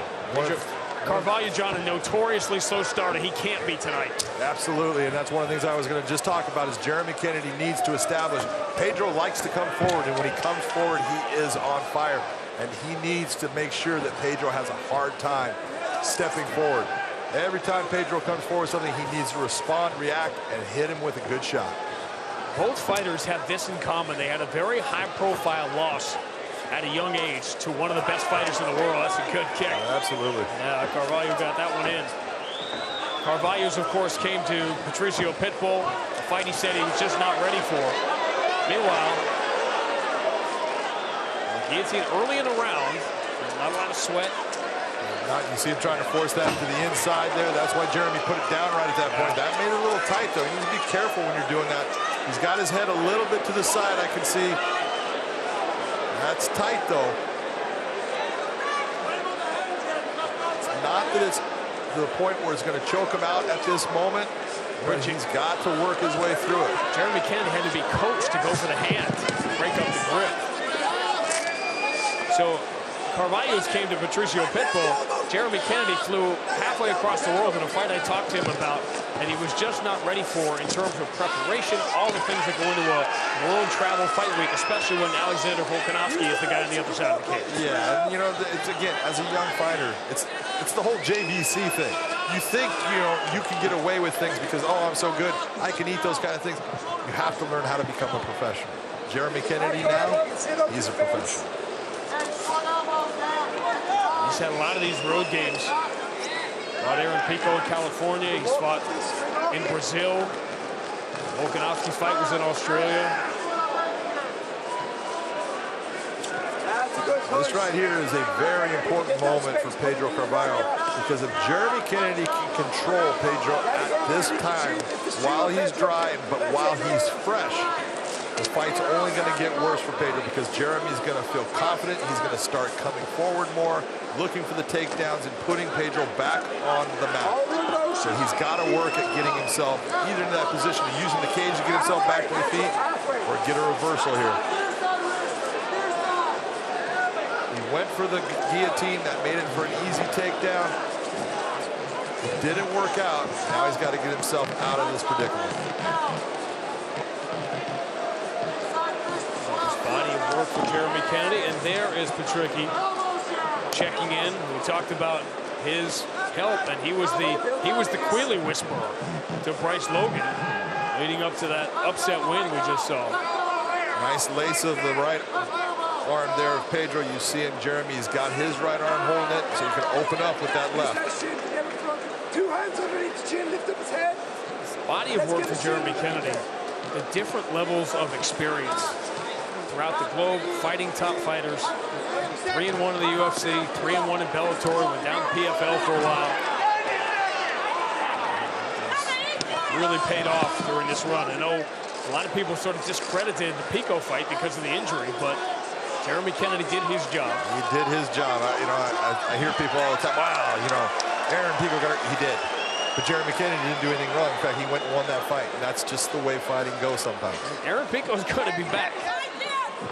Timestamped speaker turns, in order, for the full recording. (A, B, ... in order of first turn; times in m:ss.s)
0:00.2-0:01.3 A
0:00.3-0:04.2 B
0:04.4-0:21.8 A
0:22.5-0:29.8 B
0:29.7-0:30.5 A
0:30.5-0:32.1 B
0:33.2-0:38.0 B
0:38.6-0:39.2 B
0:41.5-0:44.4 B
0:45.0-0:54.6 A
0:49.1-0:49.4 B
0:56.1-0:57.2 A
1:00.7-1:06.8 A
1:04.8-1:05.2 B
1:06.9-1:10.5 B
1:12.3-1:27.5 B
1:27.4-1:41.5 A
1:44.1-1:45.8 B
1:46.8-1:50.4 B
1:51.3-1:53.2 B
1:57.2-2:07.7 A
2:08.4-2:24.4 A
2:27.5-2:30.8 A
2:32.2-2:35.6 A
2:39.4-2:42.8 B
2:43.7-2:50.4 B
2:50.9-2:53.2 B
2:53.9-3:01.2 A
3:01.4-3:04.2 C
3:04.6-3:09.0 B
3:09.6-3:16.4 B
3:18.3-3:25.4 B
3:26.0-3:27.4 B
3:27.4-3:37.4 A
3:37.4-3:39.1 B